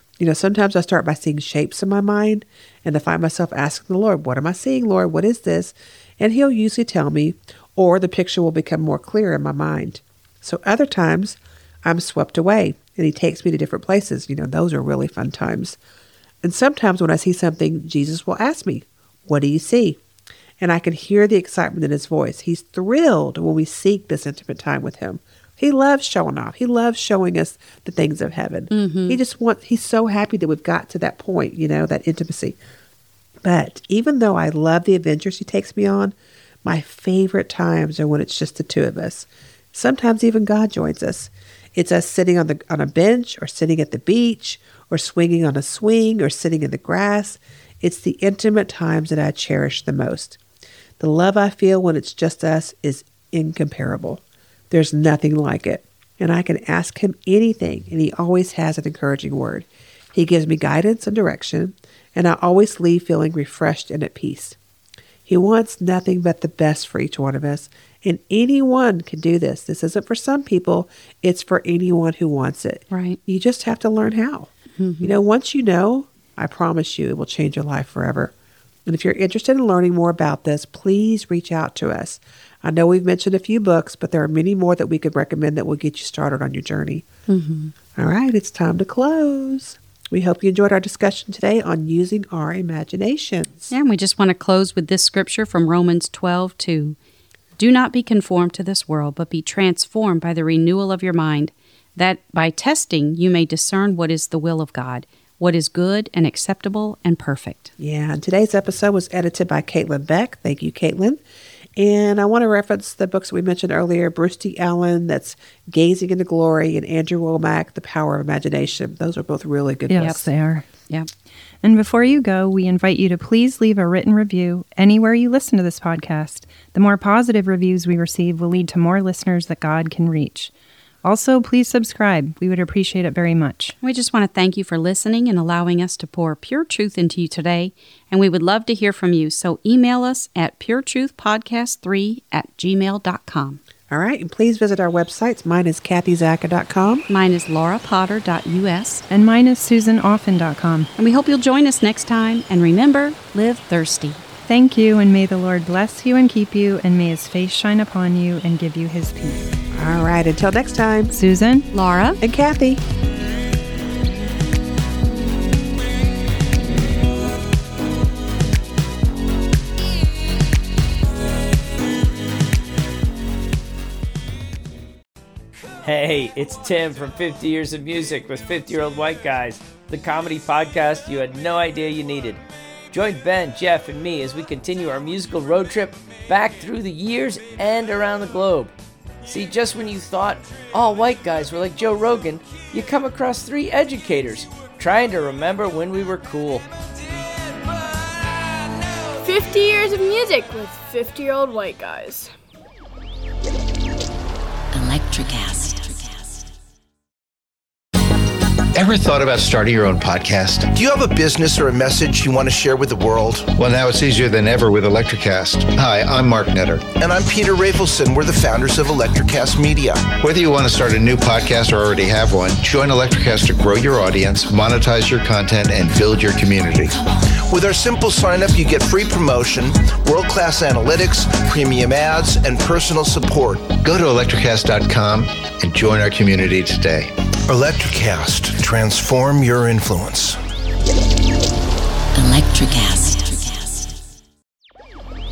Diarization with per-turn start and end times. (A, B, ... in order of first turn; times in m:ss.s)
0:00.2-0:15.8 A
0:16.4-0:20.0 A
0:20.6-0:32.6 A
0:28.7-0:29.2 B
0:33.4-0:50.4 A
0:51.0-1:04.6 A
1:05.2-1:14.5 A
1:12.9-1:13.2 B
1:14.8-1:15.1 B
1:15.0-1:18.3 A
1:18.8-1:27.0 A
1:27.3-1:27.7 B
1:28.0-1:33.7 A
1:33.7-1:37.0 B
1:37.6-1:47.7 B
1:47.8-1:51.2 A
1:51.8-2:00.3 A
1:59.9-2:00.6 C
2:01.6-2:10.5 C
2:11.0-2:13.7 C
2:13.8-2:23.6 B
2:23.9-2:27.0 A
2:27.1-2:29.0 B
2:29.1-2:30.9 C
2:31.0-2:34.2 B
2:34.5-2:39.4 C
2:39.7-2:41.1 A
2:41.1-2:41.7 C
2:41.7-2:42.2 B
2:42.2-2:42.8 A
2:55.8-3:08.7 D
3:09.2-3:16.6 D
3:19.2-3:22.3 E
3:24.7-3:26.5 F
3:28.7-3:30.7 G
3:30.7-3:33.6 H
3:33.6-3:36.8 G
3:36.9-3:40.2 H
3:40.2-3:46.9 G
3:47.5-3:53.8 H
3:53.8-3:57.1 G
3:57.5-4:00.4 H
4:02.1-4:03.9 F